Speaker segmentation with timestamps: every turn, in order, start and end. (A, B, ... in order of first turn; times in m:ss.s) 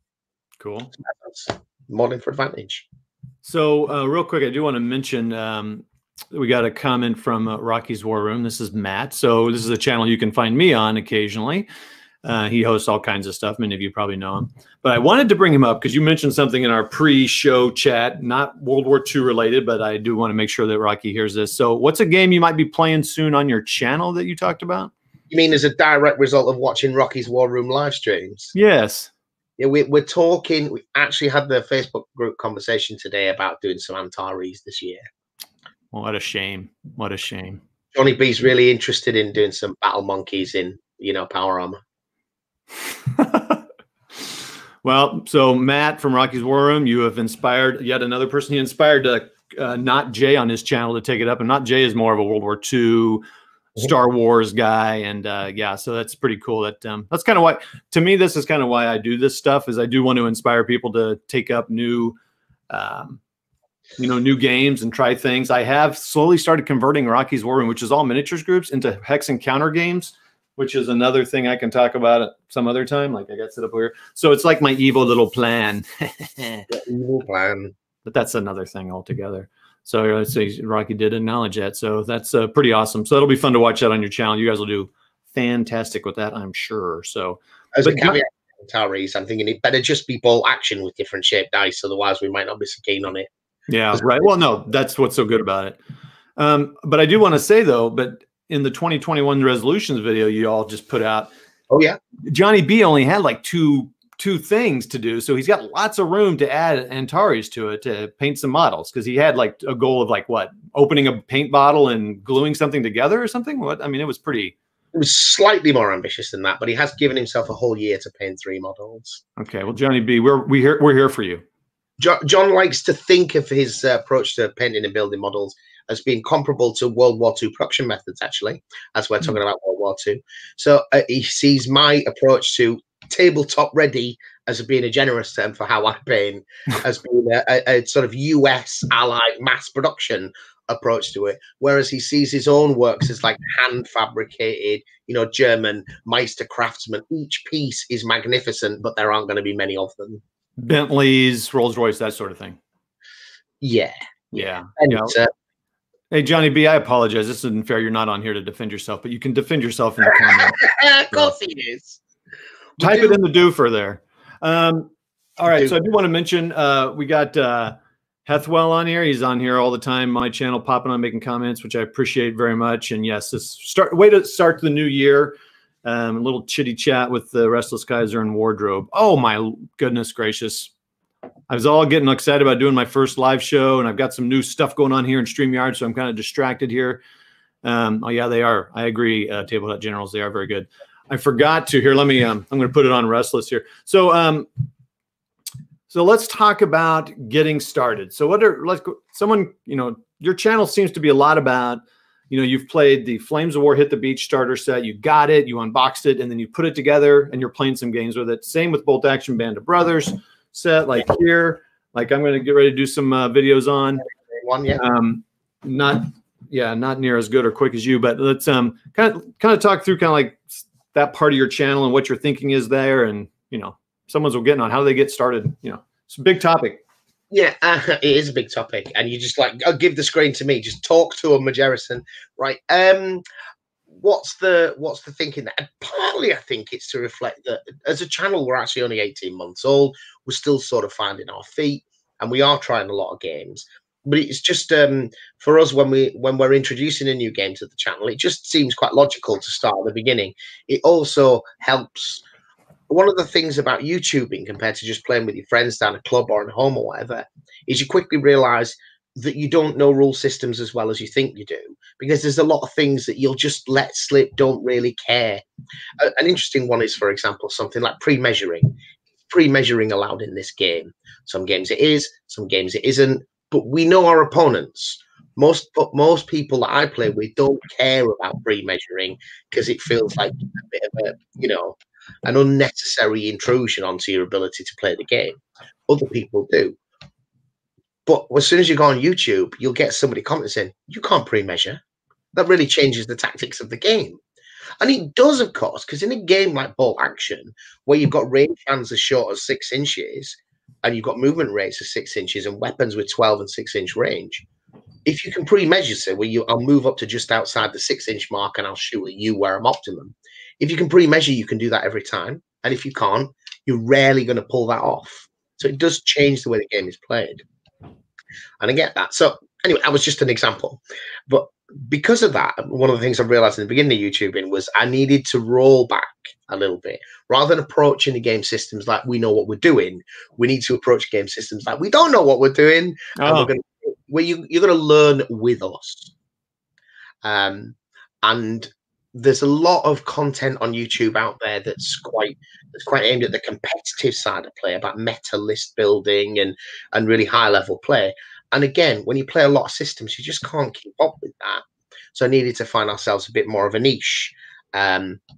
0:00.6-0:00.9 A
0:01.0-0:02.8 B
0:03.4-0:11.7 A
0:12.2-0:24.9 A
0:25.3-0:28.5 B
0:28.5-0:29.1 A
0:29.6-0:35.0 B
0:35.9-0:37.6 A
0:37.9-0:41.8 B
0:43.1-0:43.6 A
0:44.8-0:53.2 A
0:53.8-1:02.1 A
1:02.7-1:03.2 A
1:04.0-1:16.7 A
1:16.7-1:17.7 B
1:18.0-1:28.2 A
1:27.8-1:33.3 B
1:33.7-1:35.8 A
1:33.9-1:34.2 B
1:36.4-1:41.3 A
1:41.7-1:42.0 B
1:42.2-1:54.5 A
1:54.9-1:59.2 B
1:59.4-2:01.4 A
2:02.0-2:30.2 B
2:30.6-2:32.6 A
2:33.6-2:35.3 B
2:34.3-2:35.2 A
2:36.1-2:41.3 A
2:40.1-2:42.0 B
2:42.8-2:43.2 B
2:42.8-3:00.7 A
3:01.5-3:07.0 A
3:07.6-3:14.5 A
3:15.9-3:34.0 A
3:34.3-3:34.8 B
3:34.7-3:46.8 A
3:47.3-3:53.2 B
3:53.9-4:12.2 B
4:12.9-4:25.4 B
4:26.0-4:28.8 B
4:29.3-4:46.8 B
4:48.0-4:51.8 B
4:52.3-4:54.2 B
4:54.8-5:04.4 B
5:05.0-5:17.4 B
5:18.6-5:36.1 B
5:33.2-5:33.5 A
5:37.2-5:55.2 B